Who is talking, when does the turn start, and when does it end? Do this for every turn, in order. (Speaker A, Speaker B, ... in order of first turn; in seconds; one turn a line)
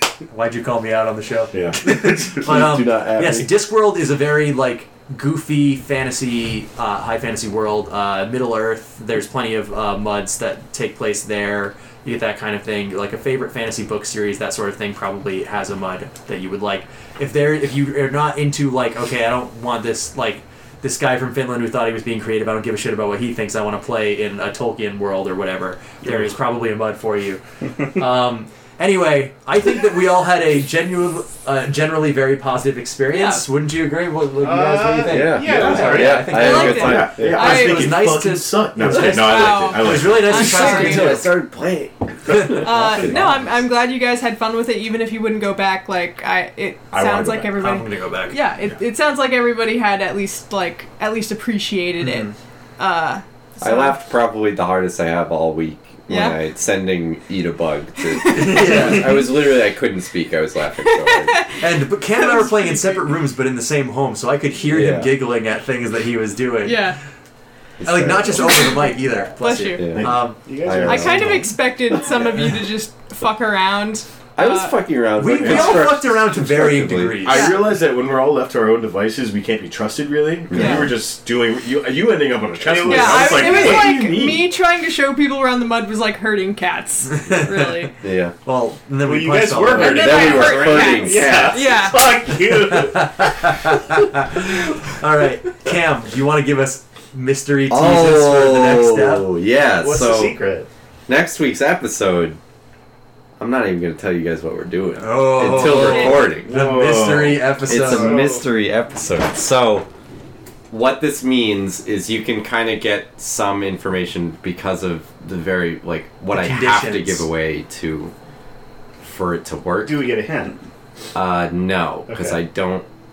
Speaker A: 0.3-41.4
Speaker B: 1.5-2.0
Speaker C: 2.0-3.5
Speaker D: 33.1-33.4
Speaker E: 34.4-36.3
Speaker C: 35.0-37.6
Speaker B: 35.4-40.4
Speaker D: 36.3-37.9
Speaker D: 38.9-41.3
Speaker C: 40.3-43.4
Speaker A: 42.3-42.9
Speaker D: 42.5-54.0
Speaker B: 46.9-47.6
Speaker A: 47.5-48.4
Speaker A: 52.0-52.3
Speaker C: 53.6-61.4
Speaker D: 56.1-56.4
Speaker D: 58.1-59.2
Speaker A: 58.3-59.3
Speaker D: 61.0-61.6
Speaker A: 61.6-67.0
Speaker D: 62.2-62.5
Speaker C: 64.7-65.1
Speaker D: 66.6-67.0
Speaker C: 67.8-68.7
Speaker A: 67.8-70.4
Speaker D: 68.3-69.9
Speaker C: 69.8-72.5
Speaker E: 70.4-71.5
Speaker D: 70.8-74.8
Speaker C: 74.3-77.4
Speaker A: 75.2-77.5
Speaker B: 75.4-75.8
Speaker B: 77.2-84.5
Speaker D: 77.3-77.6
Speaker C: 80.5-80.9
Speaker D: 80.5-80.9
Speaker E: 82.6-84.0
Speaker D: 82.8-87.9
Speaker A: 87.1-87.9
Speaker C: 88.0-88.3
Speaker A: 88.4-90.0
Speaker E: 89.0-93.3
Speaker D: 89.7-92.1
Speaker C: 89.8-91.8
Speaker A: 92.6-99.3
Speaker C: 97.7-100.4
Speaker E: 99.7-100.7
Speaker C: 101.1-102.4
Speaker C: 103.4-106.7
Speaker A: 105.0-108.3
Speaker D: 105.6-106.2
Speaker B: 106.3-107.5
Speaker C: 107.7-109.9
Speaker E: 107.8-108.4
Speaker C: 110.7-118.1
Speaker A: 116.3-117.2
Speaker C: 119.0-120.1
Speaker E: 119.8-120.6
Speaker C: 121.1-122.8
Speaker E: 122.1-122.4